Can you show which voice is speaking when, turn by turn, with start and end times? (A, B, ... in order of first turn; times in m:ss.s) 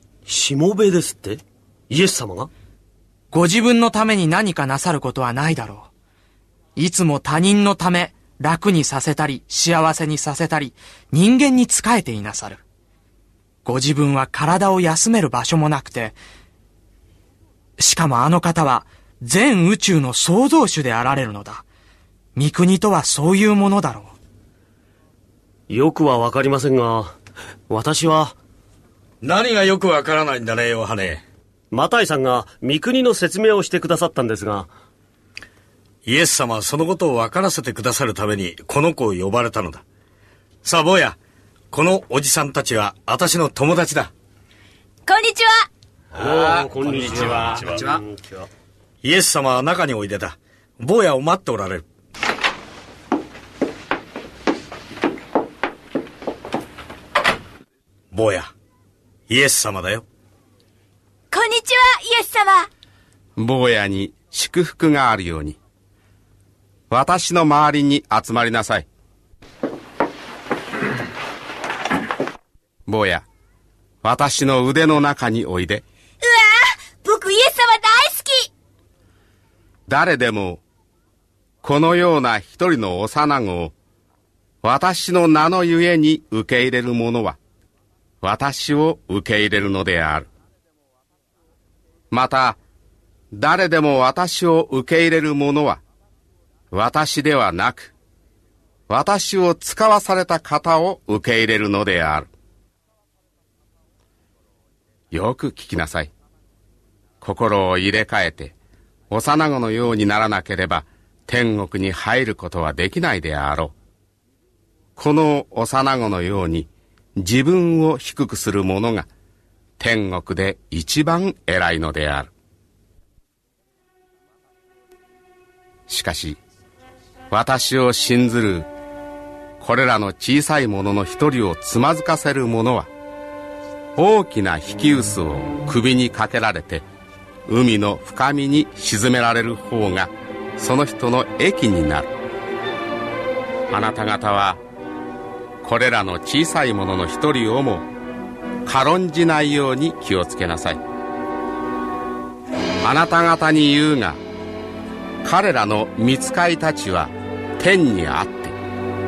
0:00.3-0:02.5 A
0:03.3-0:05.9 B
0:06.8-0:12.6 B
0:13.6-0:16.2 B
0:17.8-0:21.6 B
0:22.4-0:24.1 B
0:25.7-0:27.1 A
0:27.7-0:28.4 A
0:29.2-0:31.2 C
0:31.7-0:34.7 A
0:36.0-0:39.8 C
0:40.6-0:41.2 C
0:41.7-0:44.1 C
0:45.0-0:45.7 D
0:46.1-0:48.5 A
0:49.0-0:51.8 C
0:58.1-0:58.5 C
0:59.3-1:00.0 C
1:01.3-1:02.7 D
1:03.4-1:05.6 E
1:06.9-1:08.8 E
1:12.9-1:13.2 E
1:14.0-1:15.8 E
1:16.2-1:18.5 D
1:19.9-1:20.6 E
1:21.6-1:23.7 E
1:24.6-1:27.4 E
1:28.2-1:30.3 E
1:32.1-1:32.6 E
1:33.3-1:35.8 E
1:36.7-1:37.9 E
1:38.9-1:42.3 E
1:45.1-1:46.1 E
1:47.2-1:48.5 E
1:49.1-1:53.7 E
1:55.0-1:59.1 E
1:59.8-2:02.3 E
2:05.9-2:06.4 E
2:07.3-2:08.7 E
2:09.6-2:12.9 E
2:14.0-2:16.8 E
2:17.5-2:22.1 E
2:23.7-2:24.6 E
2:25.6-2:27.9 E
2:28.6-2:30.8 E
2:32.8-2:34.2 E
2:35.2-2:38.6 E